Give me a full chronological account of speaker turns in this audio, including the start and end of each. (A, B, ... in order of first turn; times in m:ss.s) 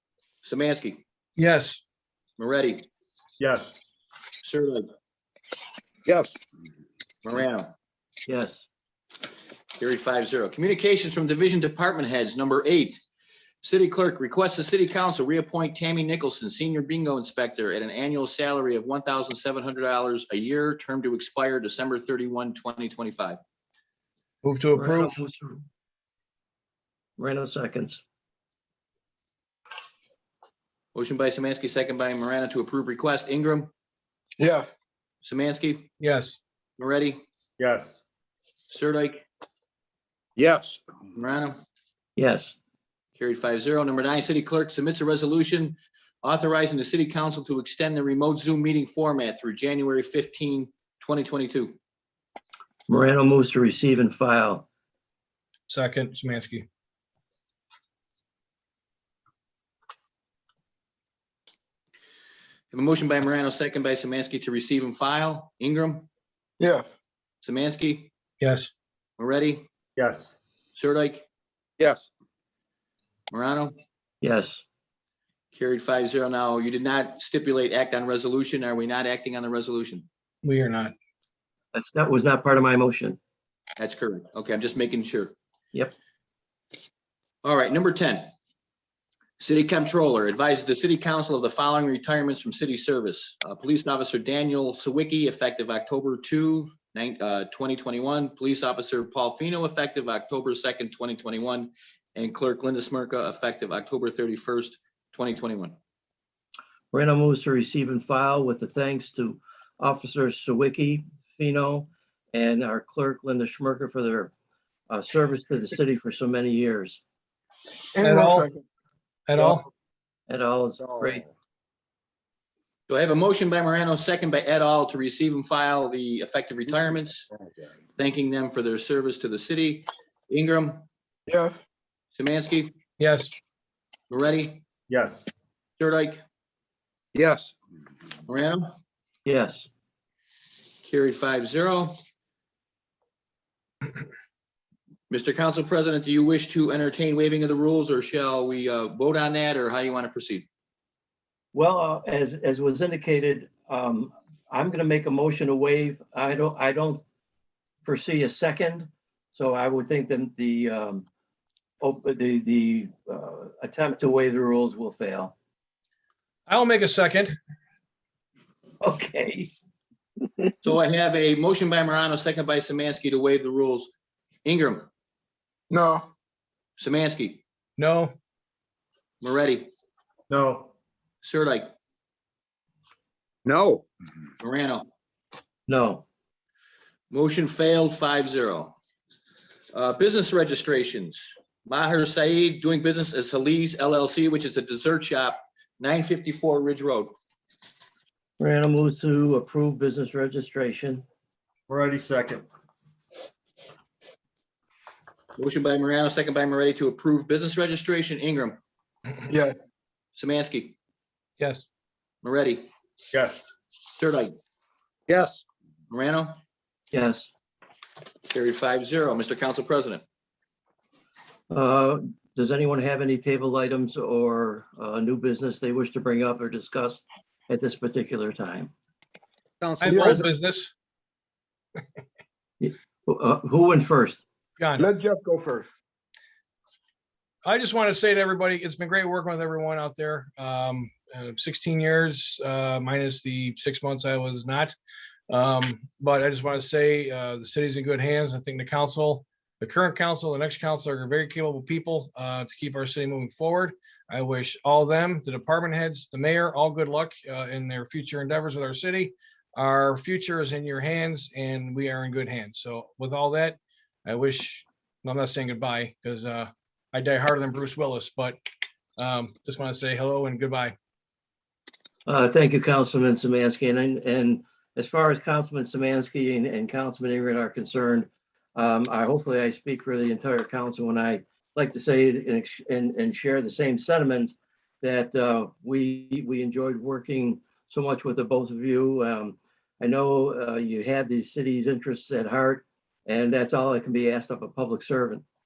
0:00.4-0:01.0 A
0:01.4-0:01.8 B
0:02.4-0:02.9 A
0:03.4-0:03.8 C
0:04.4-0:04.8 A
0:06.1-0:06.3 D
0:07.2-0:07.7 A
0:08.3-0:08.6 E
0:09.8-0:13.0 A
0:13.6-0:23.4 A
0:24.4-0:25.2 B
0:24.8-0:25.6 E
0:27.2-0:28.0 E
0:31.0-0:33.7 A
0:34.4-0:34.7 F
0:35.2-0:35.9 A
0:36.0-0:36.4 B
0:36.8-0:37.2 A
0:37.6-0:38.0 C
0:38.7-0:39.2 A
0:40.4-0:40.8 D
0:41.2-0:41.6 A
0:42.2-0:42.6 E
0:43.2-0:51.8 A
0:52.9-0:54.7 E
0:55.7-0:56.7 B
1:02.7-1:06.1 A
1:06.6-1:06.9 F
1:07.4-1:08.1 A
1:08.4-1:08.7 B
1:09.2-1:09.7 A
1:10.0-1:10.3 C
1:10.8-1:11.3 A
1:11.8-1:12.1 D
1:13.3-1:13.7 A
1:14.2-1:14.6 E
1:15.5-1:20.1 A
1:20.4-1:20.9 B
1:21.7-1:23.2 E
1:23.8-1:25.3 A
1:27.4-1:28.3 A
1:29.4-1:45.8 A
1:46.9-1:54.3 E
1:54.9-1:57.0 E
1:58.0-1:58.6 F
1:58.0-1:58.5 B
1:59.3-1:59.7 B
2:00.3-2:01.3 E
2:02.9-2:07.2 A
2:08.0-2:10.8 A
2:11.3-2:11.6 F
2:12.2-2:12.8 A
2:13.0-2:13.3 B
2:14.1-2:14.6 A
2:14.9-2:15.3 C
2:15.8-2:16.2 A
2:17.1-2:17.5 D
2:18.3-2:18.7 A
2:19.3-2:19.7 E
2:20.8-2:22.0 A
2:25.1-2:30.4 A
2:31.5-2:37.0 E
2:37.8-2:41.1 E
2:41.8-2:45.3 E
2:46.5-2:47.4 B
2:48.8-2:49.5 E
2:50.6-2:53.9 A
2:54.4-2:54.9 A
2:55.7-2:56.1 F
2:56.8-2:57.4 A
2:57.8-2:58.1 B
2:59.2-2:59.7 A
3:00.3-3:00.7 C
3:01.2-3:01.7 A
3:03.4-3:03.8 D
3:04.4-3:04.8 A
3:05.7-3:06.0 E
3:07.1-3:08.8 A
3:09.7-3:17.1 A
3:18.4-3:21.0 E
3:21.7-3:22.4 C
3:25.4-3:28.6 A
3:29.3-3:29.6 F
3:30.2-3:30.8 A
3:31.4-3:31.7 B
3:32.2-3:32.6 A
3:33.1-3:33.4 C
3:34.0-3:34.3 A
3:35.1-3:35.4 D
3:35.9-3:36.4 A
3:36.9-3:37.3 E
3:38.3-3:40.0 A
3:41.5-3:48.7 E
3:49.6-3:50.3 D
3:49.8-3:50.7 B
3:49.9-3:50.2 F
3:52.6-3:54.2 E
3:54.6-3:54.9 B
3:54.8-3:55.7 F
3:57.4-4:04.8 B
4:05.3-4:28.4 B
4:29.0-4:30.8 B
4:32.1-4:55.2 E